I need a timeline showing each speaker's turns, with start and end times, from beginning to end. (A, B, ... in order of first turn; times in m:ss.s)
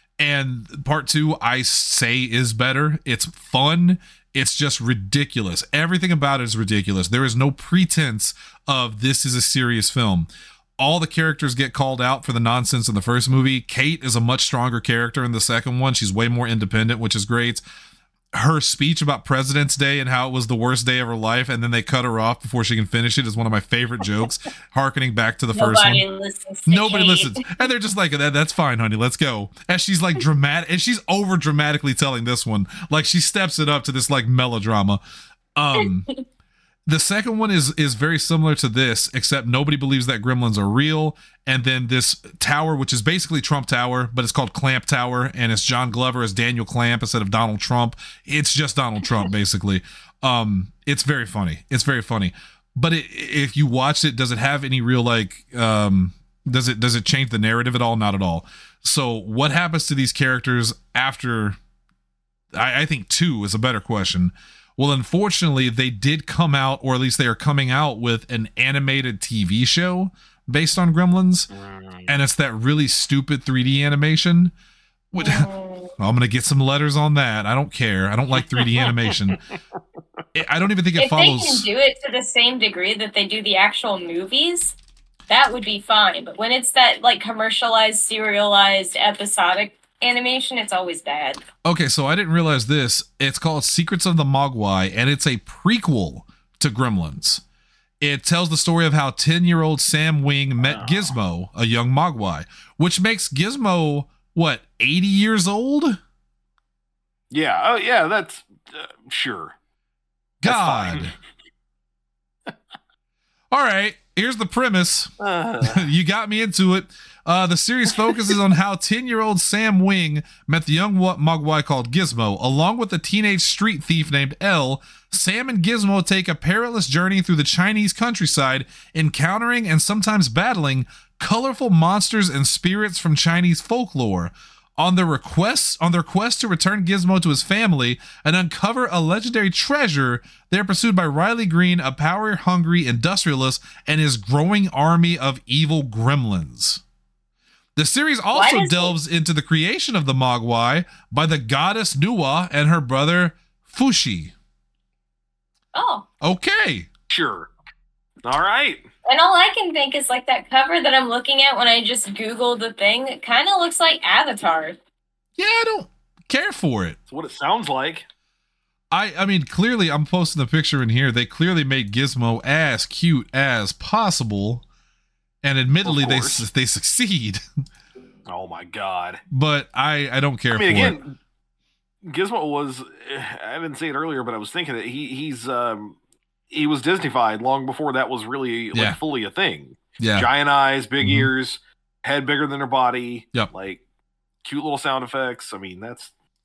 0:00.2-0:10.3 A
0:10.8-0:17.6 A
0:18.3-0:26.0 A
0:25.5-0:27.7 B
0:26.7-0:35.0 A
0:35.5-0:36.1 A
0:35.8-0:36.2 B
0:36.9-1:01.6 A
1:02.5-1:11.5 A
1:11.5-1:12.1 C
1:12.1-1:14.5 A
1:15.1-1:15.5 A
1:15.2-1:15.9 B
1:16.0-1:19.4 A
1:18.5-1:19.6 C
1:20.3-1:21.7 A
1:21.0-1:24.7 B
1:25.3-1:31.4 B
1:31.6-1:37.4 A
1:38.0-1:46.0 A
1:40.6-1:41.1 C
1:47.3-1:49.5 C
1:50.4-1:51.1 A
1:50.4-1:51.1 C
1:53.5-2:26.8 A
1:55.2-1:55.9 C
2:27.8-2:34.3 A
2:28.3-2:28.9 B
2:35.7-2:36.0 B
2:36.2-2:36.9 A
2:37.1-2:37.5 C
2:38.2-2:38.8 C
2:39.0-2:44.8 B
2:45.4-2:47.0 A
2:47.1-2:48.0 C
2:48.9-2:54.6 A
2:55.4-2:57.4 A
2:55.8-2:56.4 C
2:58.3-2:59.2 C
2:59.3-3:01.0 A
3:00.5-3:01.2 C
3:02.0-3:06.0 C
3:06.5-3:13.8 C
3:08.7-3:09.0 A
3:10.0-3:10.3 A
3:11.0-3:11.3 A
3:14.4-3:16.1 C